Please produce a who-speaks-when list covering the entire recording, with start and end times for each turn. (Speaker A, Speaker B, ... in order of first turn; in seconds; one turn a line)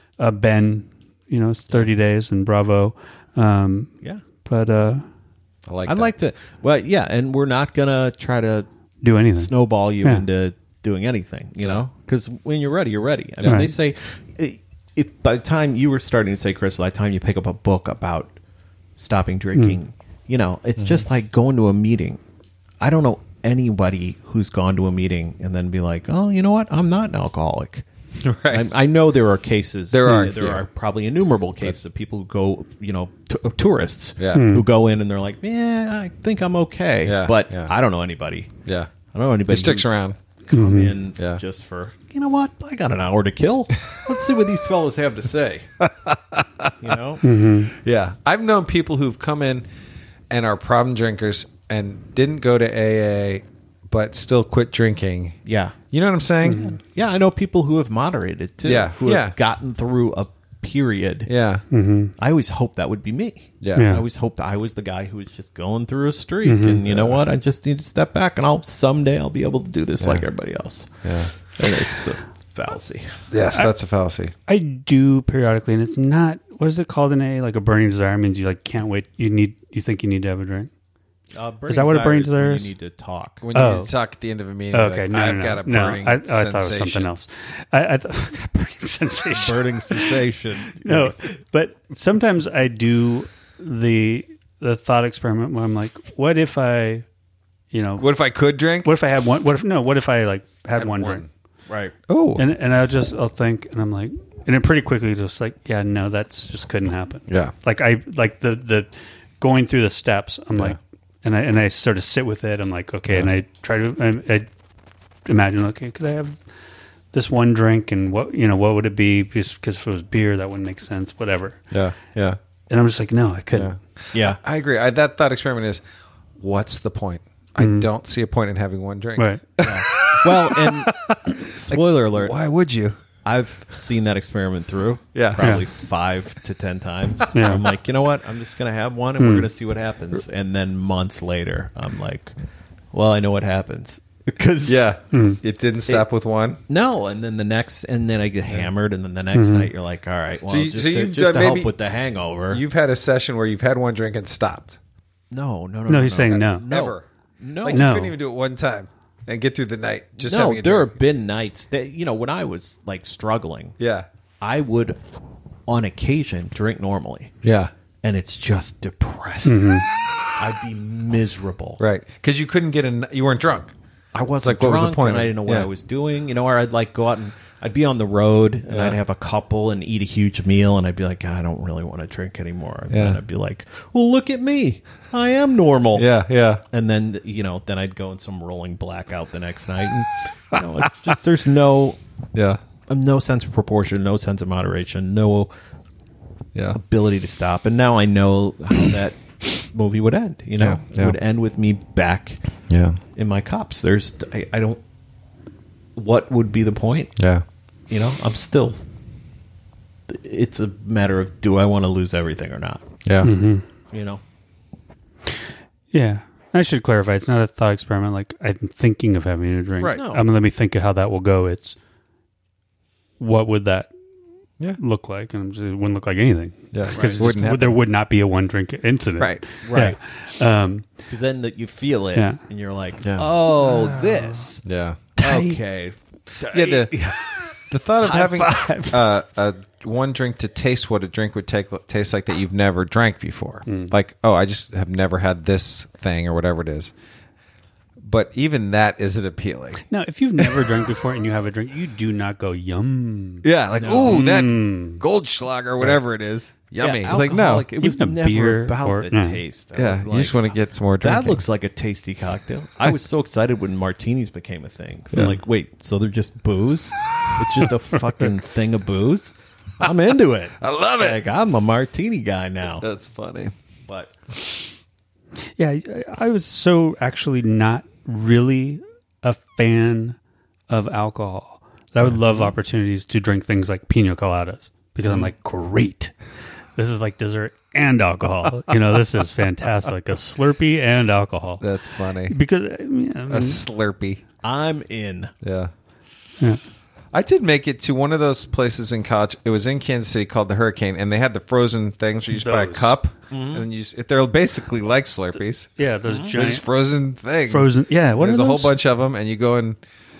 Speaker A: 0.2-3.9
Speaker A: 4.4-5.0
Speaker B: 5.7-6.1
Speaker C: 5.8-8.7
Speaker A: 9.0-10.2
Speaker C: 9.4-18.3
Speaker A: 13.4-13.7
Speaker C: 19.0-22.2
Speaker C: 22.8-27.9
Speaker B: 28.2-28.7
Speaker C: 28.5-38.5
Speaker B: 29.9-30.6
Speaker B: 34.2-34.5
Speaker A: 34.3-34.7
Speaker B: 37.0-37.7
Speaker B: 38.6-38.9
Speaker C: 39.1-40.0
Speaker B: 39.5-40.2
Speaker C: 40.5-45.7
Speaker A: 40.5-40.9
Speaker B: 45.8-46.8
Speaker C: 46.8-47.2
Speaker A: 47.2-47.7
Speaker B: 47.7-49.6
Speaker B: 50.3-55.4
Speaker C: 55.4-55.8
Speaker B: 55.9-56.7
Speaker A: 56.4-56.8
Speaker C: 56.5-61.3
Speaker B: 58.6-59.3
Speaker B: 61.3-61.6
Speaker A: 61.7-62.1
Speaker C: 62.2-73.1
Speaker B: 63.6-63.9
Speaker A: 63.8-64.0
Speaker A: 66.4-66.8
Speaker B: 66.9-67.2
Speaker B: 71.0-71.3
Speaker B: 73.3-74.3
Speaker A: 74.5-80.7
Speaker C: 81.3-83.5
Speaker A: 81.7-82.7
Speaker B: 83.4-87.1
Speaker A: 83.5-83.9
Speaker A: 84.7-97.0
Speaker C: 89.3-91.3
Speaker A: 97.7-98.1
Speaker B: 98.0-98.9
Speaker A: 98.8-101.2
Speaker B: 100.8-101.3
Speaker C: 101.7-101.9
Speaker B: 102.1-102.5
Speaker A: 102.3-108.9
Speaker B: 107.3-107.5
Speaker A: 109.4-114.5
Speaker A: 115.2-116.4
Speaker A: 117.1-121.6
Speaker B: 121.7-122.4
Speaker A: 122.7-123.7
Speaker B: 123.5-125.8
Speaker C: 124.1-124.4
Speaker B: 126.4-133.0
Speaker A: 127.6-127.9
Speaker A: 129.2-129.5
Speaker C: 129.6-132.3
Speaker C: 133.2-142.3
Speaker B: 135.1-135.6
Speaker A: 135.4-135.6
Speaker A: 137.3-137.7
Speaker A: 139.2-139.5
Speaker C: 142.9-144.9
Speaker B: 144.7-146.6
Speaker A: 145.1-145.4
Speaker C: 146.7-152.6
Speaker A: 149.3-149.7
Speaker B: 150.5-151.7
Speaker B: 152.5-154.8
Speaker C: 155.3-157.9
Speaker A: 155.9-156.7
Speaker B: 156.6-157.0
Speaker B: 157.6-160.9
Speaker A: 157.7-158.1
Speaker C: 160.2-163.8
Speaker B: 163.8-164.1
Speaker C: 164.4-165.0
Speaker C: 165.7-167.3
Speaker B: 167.4-167.7
Speaker C: 168.0-169.6
Speaker A: 169.4-169.8
Speaker C: 170.4-171.8
Speaker B: 171.8-173.7
Speaker C: 174.1-186.1
Speaker B: 174.4-175.7
Speaker B: 178.7-179.0
Speaker B: 182.9-183.2
Speaker B: 185.9-186.6
Speaker C: 186.7-192.0
Speaker B: 192.3-192.6
Speaker C: 192.9-195.5
Speaker C: 196.7-202.4
Speaker B: 200.6-201.2
Speaker B: 202.7-203.0
Speaker C: 203.1-204.8
Speaker C: 205.9-207.1
Speaker B: 207.2-207.4
Speaker C: 207.9-208.8
Speaker C: 210.1-212.8
Speaker B: 213.0-213.3
Speaker A: 213.2-213.6
Speaker C: 213.9-214.2
Speaker A: 215.9-221.8
Speaker C: 219.9-220.2
Speaker A: 223.2-223.9
Speaker A: 224.8-230.9
Speaker B: 226.7-227.8
Speaker C: 226.9-227.3
Speaker B: 229.2-229.4
Speaker C: 229.6-230.0
Speaker C: 231.1-234.6
Speaker A: 233.6-234.4
Speaker B: 234.6-235.1
Speaker A: 235.2-235.6
Speaker C: 235.2-237.3
Speaker B: 236.5-236.9
Speaker B: 237.7-246.9
Speaker C: 238.0-239.0
Speaker A: 243.7-243.9
Speaker B: 248.0-249.8
Speaker A: 249.9-253.5
Speaker B: 253.4-257.7
Speaker C: 253.8-254.2
Speaker A: 254.1-255.0
Speaker C: 256.8-272.9
Speaker A: 257.8-259.4
Speaker B: 259.8-261.4
Speaker B: 270.6-271.2
Speaker B: 272.8-273.5
Speaker C: 273.9-274.1
Speaker A: 275.6-280.2
Speaker A: 280.7-286.1
Speaker B: 282.0-282.4
Speaker A: 286.8-291.6
Speaker B: 291.6-292.4
Speaker A: 292.3-293.6
Speaker B: 293.3-294.2
Speaker C: 294.4-295.3
Speaker B: 295.4-295.7
Speaker B: 297.1-305.7
Speaker A: 302.3-302.9
Speaker C: 303.3-303.7
Speaker A: 305.8-306.6
Speaker C: 306.1-306.3
Speaker B: 306.2-309.8
Speaker A: 307.4-308.7